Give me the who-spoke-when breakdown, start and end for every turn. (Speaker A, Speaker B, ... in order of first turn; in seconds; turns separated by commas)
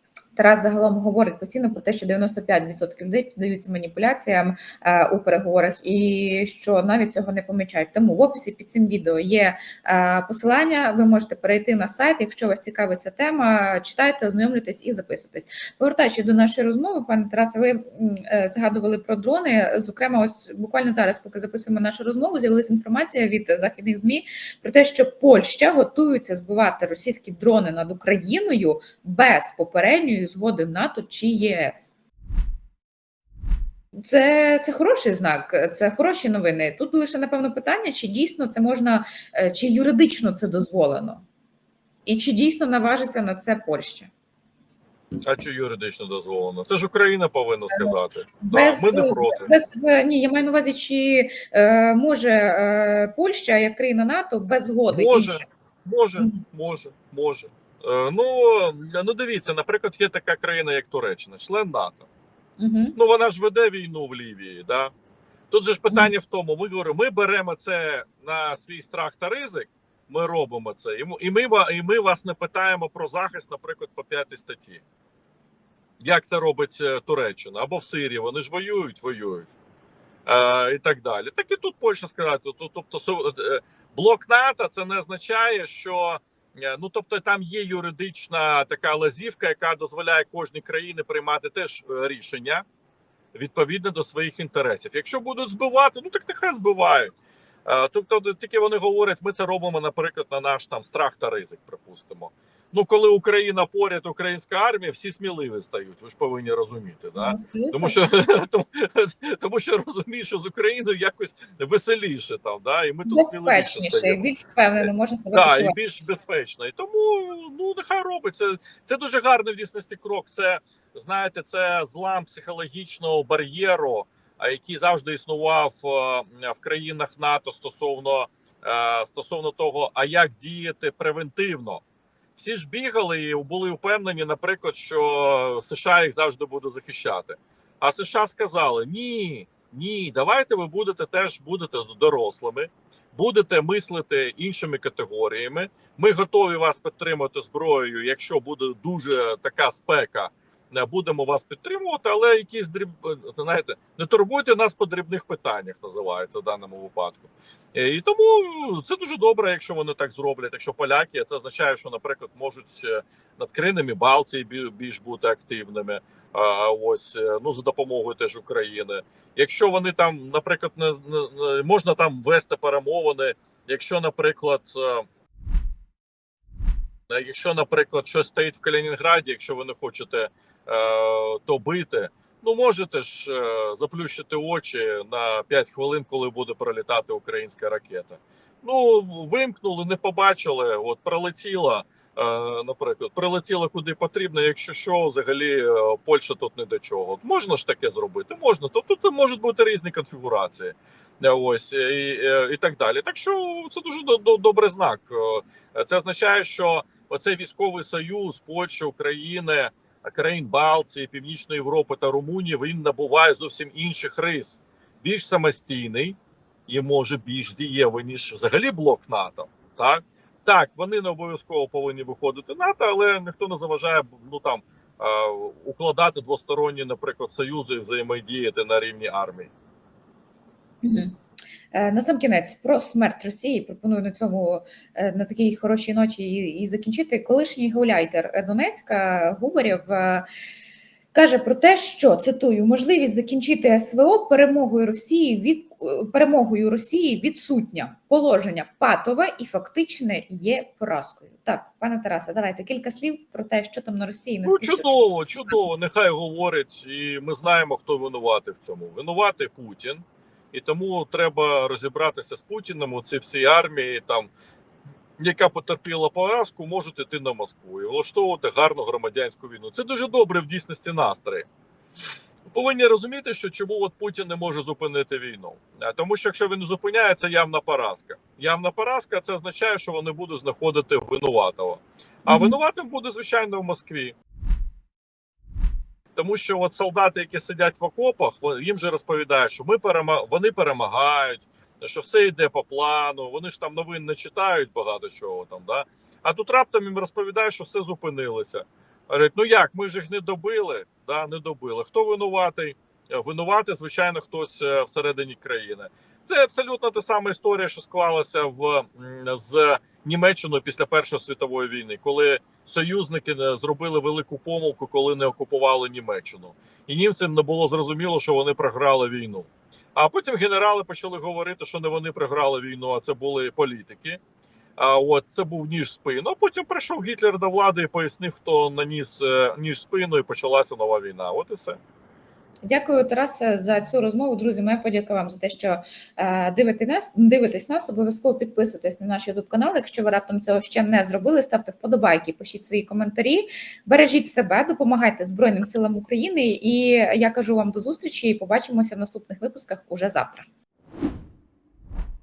Speaker A: 0.3-31.9, Speaker A: 34.0-41.2, Speaker A: 42.0-44.1, Speaker B: 45.2-49.5, Speaker A: 47.7-55.4, Speaker B: 54.9-62.0, Speaker A: 62.6-63.0, Speaker B: 63.0-64.9, Speaker B: 65.5-74.8, Speaker B: 76.0-79.5, Speaker B: 80.2-92.6, Speaker B: 93.3-97.1, Speaker B: 97.7-114.2, Speaker A: 107.2-108.0, Speaker A: 113.0-115.7, Speaker B: 114.8-131.8, Speaker B: 132.3-175.0, Speaker B: 177.1-216.2, Speaker B: 216.7-229.5, Speaker A: 230.8-231.1, Speaker A: 231.7-240.2, Speaker A: 241.1-254.8, Speaker B: 254.4-264.3, Speaker B: 265.2-271.5, Speaker B: 272.5-284.1, Speaker A: 282.2-282.5, Speaker B: 286.1-324.2, Speaker B: 324.8-331.8, Speaker A: 332.6-350.4